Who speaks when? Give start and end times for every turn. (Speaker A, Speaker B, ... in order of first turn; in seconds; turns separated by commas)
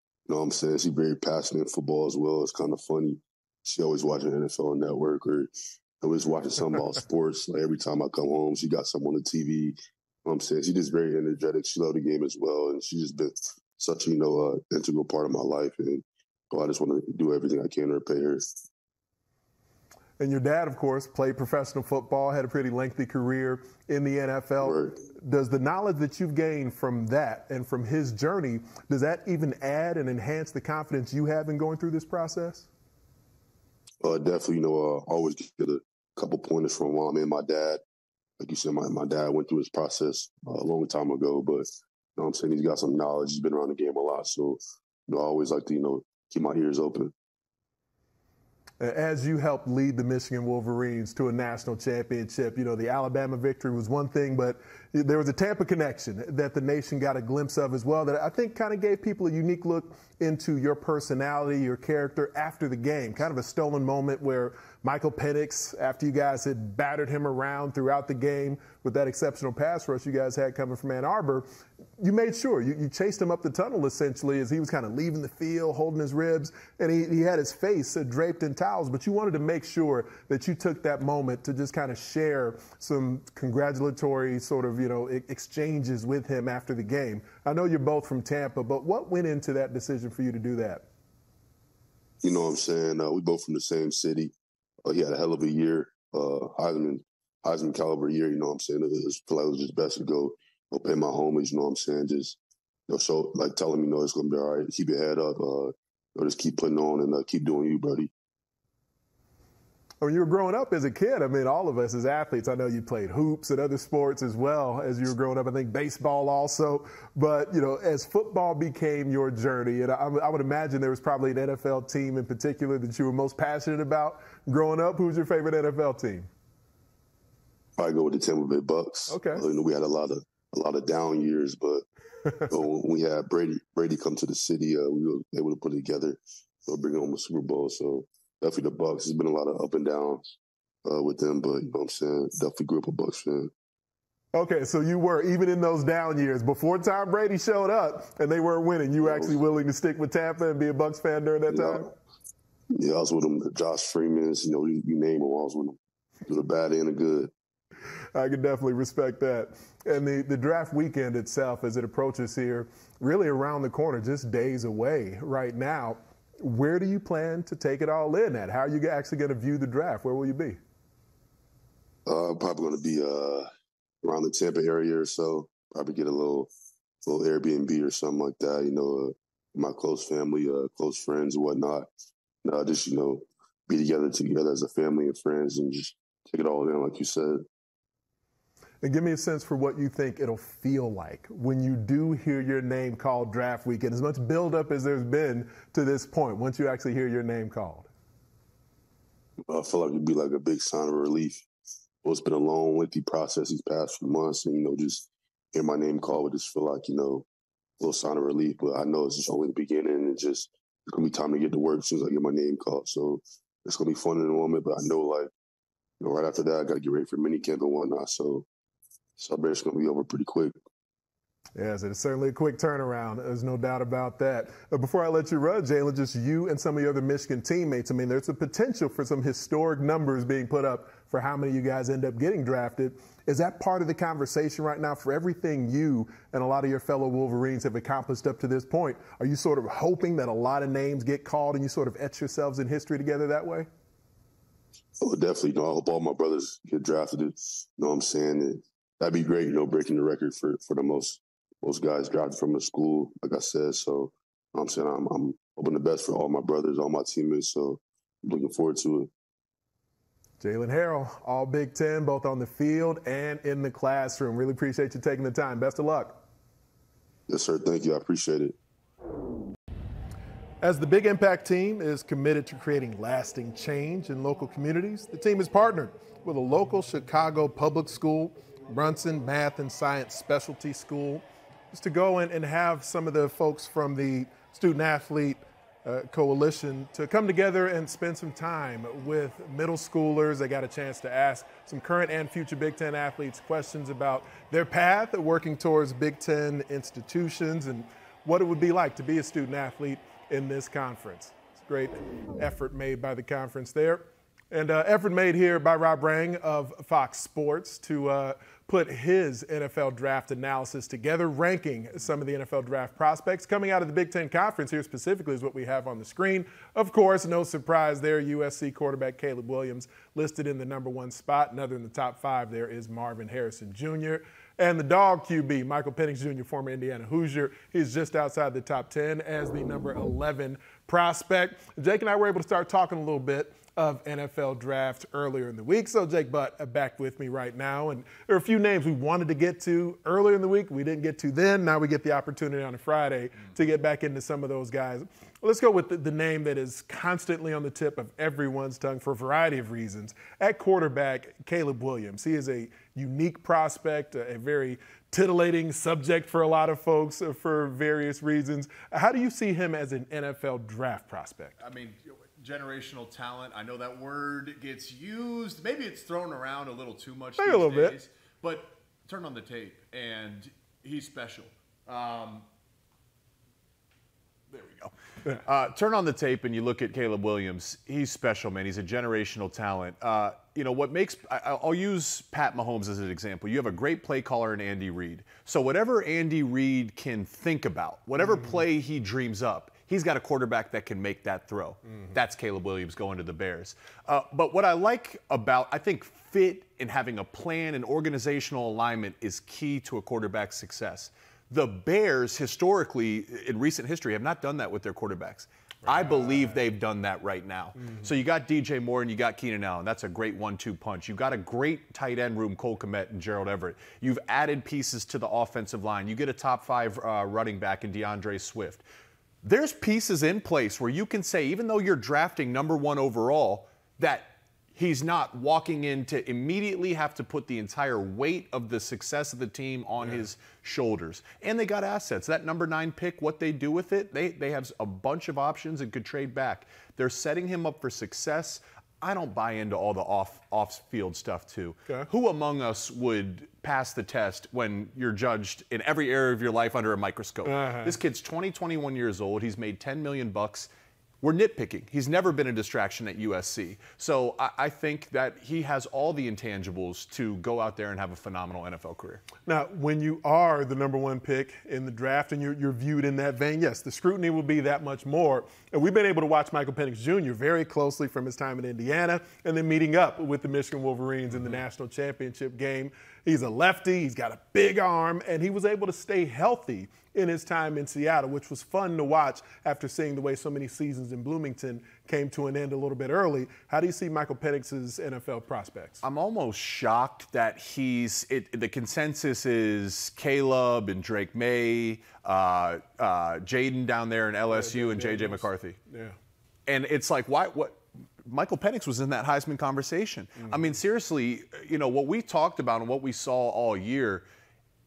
Speaker A: 0.3-18.4, Speaker B: 20.2-32.7, Speaker A: 24.6-25.0, Speaker A: 34.0-37.8, Speaker A: 38.4-41.6, Speaker A: 42.2-47.1, Speaker B: 48.8-71.5, Speaker B: 72.0-90.8, Speaker A: 92.2-94.3, Speaker A: 94.8-102.4, Speaker A: 102.9-108.1, Speaker B: 110.0-126.3, Speaker A: 127.8-131.8, Speaker B: 129.1-129.4, Speaker A: 132.5-140.2, Speaker A: 140.8-143.5, Speaker B: 144.3-151.9, Speaker A: 149.0-149.4, Speaker A: 151.5-151.9, Speaker A: 152.7-157.3, Speaker B: 158.1-170.6, Speaker A: 172.1-173.5, Speaker A: 174.0-176.5, Speaker A: 177.0-181.9, Speaker A: 182.4-187.4, Speaker B: 188.8-197.9, Speaker A: 199.5-201.4, Speaker A: 202.0-207.2, Speaker A: 207.8-215.3, Speaker A: 216.0-218.4, Speaker A: 219.2-220.5, Speaker B: 221.5-243.7, Speaker A: 245.0-259.1, Speaker B: 260.4-266.2, Speaker A: 267.3-268.5, Speaker B: 270.6-361.6, Speaker C: 361.6-372.4, Speaker B: 367.4-368.0, Speaker C: 374.5-418.8, Speaker C: 419.4-450.7, Speaker B: 447.4-447.9, Speaker C: 451.2-459.2, Speaker B: 459.4-486.0, Speaker C: 486.0-495.8, Speaker B: 494.5-496.1, Speaker C: 496.7-504.2